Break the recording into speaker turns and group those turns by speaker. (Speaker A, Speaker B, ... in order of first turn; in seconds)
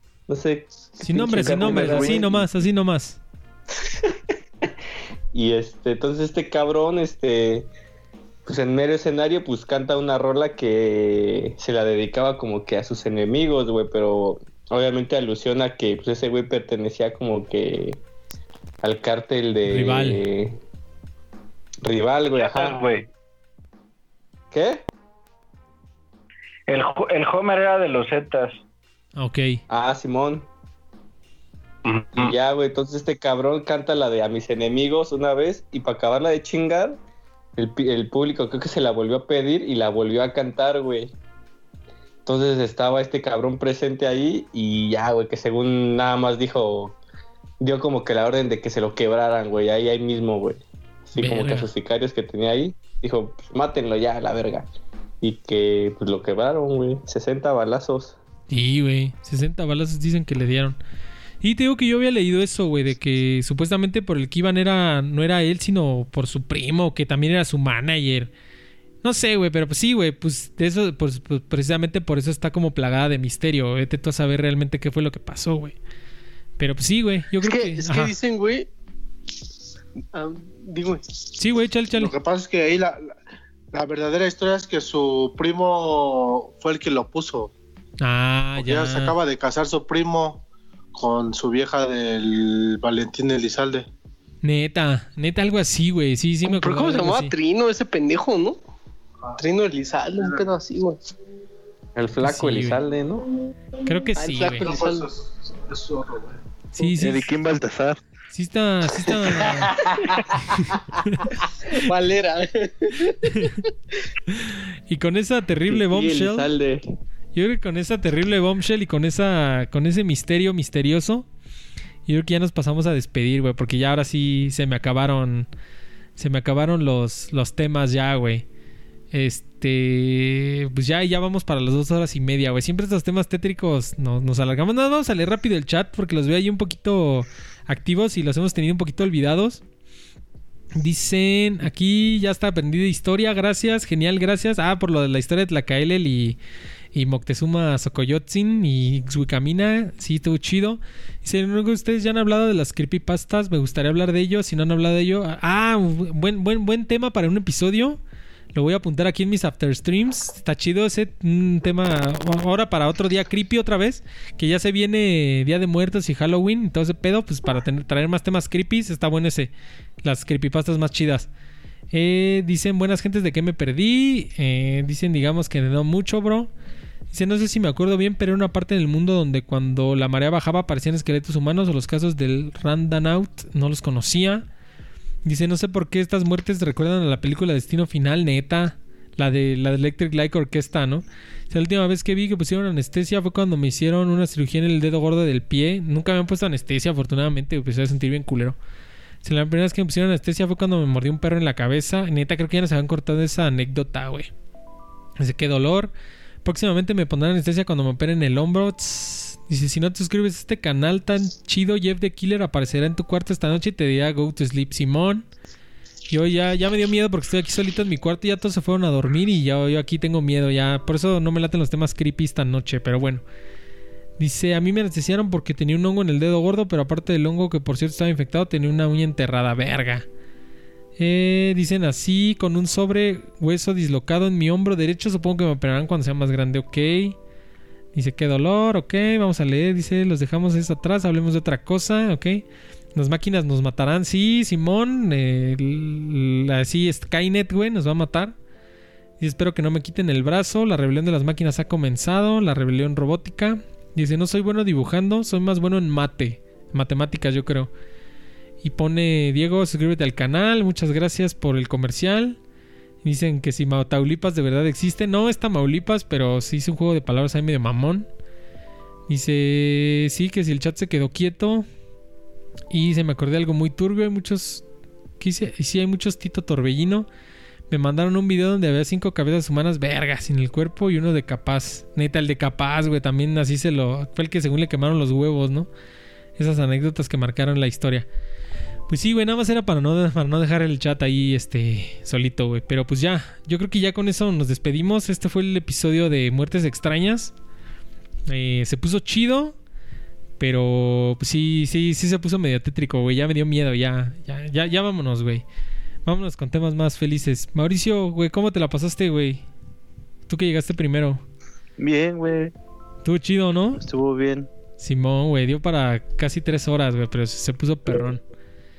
Speaker A: 0.3-2.5, 5.3-7.7, 8.4-18.0, 18.8-20.6, 21.8-22.8, 24.5-24.8, 29.7-30.5, 32.2-37.0, 37.5-41.1, 42.2-47.0, 47.6-54.7, 55.2-58.2, 102.0-103.2, 115.7-116.8
Speaker B: 1.0-3.2, 19.6-20.2, 29.2-29.6, 51.2-51.7, 58.5-60.8, 61.4-68.3, 69.0-75.8, 76.6-78.1, 81.4-82.1, 88.0-89.2, 94.4-97.3, 102.2-102.8, 103.8-104.7, 106.7-107.3, 108.3-109.7, 110.4-111.8, 113.3-113.5, 114.3-116.5, 117.3-121.2, 122.1-125.5, 126.2-128.4, 129.1-139.6, 140.8-146.4, 146.9-158.0, 158.5-169.5, 170.0-171.3, 171.9-176.5, 177.1-184.5, 185.2-198.6, 199.2-204.3, 205.2-205.9, 206.4-215.3, 216.1-223.2, 224.2-230.1, 231.0-237.2, 237.9-248.3, 249.2-257.7, 258.6-262.4, 263.0-268.1, 269.1-271.7, 272.7-274.6, 275.2-277.1, 277.7-285.7, 286.4-288.1, 288.9-297.3, 298.3-299.5, 300.4-305.4, 306.1-309.4, 310.3-311.2, 313.0-313.8, 314.8-318.2
Speaker C: 22.4-23.1, 26.7-28.6, 31.9-32.3
Speaker D: 77.4-78.7, 80.1-81.1, 96.4-98.6, 99.4-101.0, 104.2-105.1, 111.7-113.7
Speaker E: 81.9-83.2, 83.7-87.5, 88.6-90.4, 90.9-93.9, 104.6-105.1, 105.7-106.3
Speaker F: 107.0-108.0, 311.8-312.5, 313.8-314.5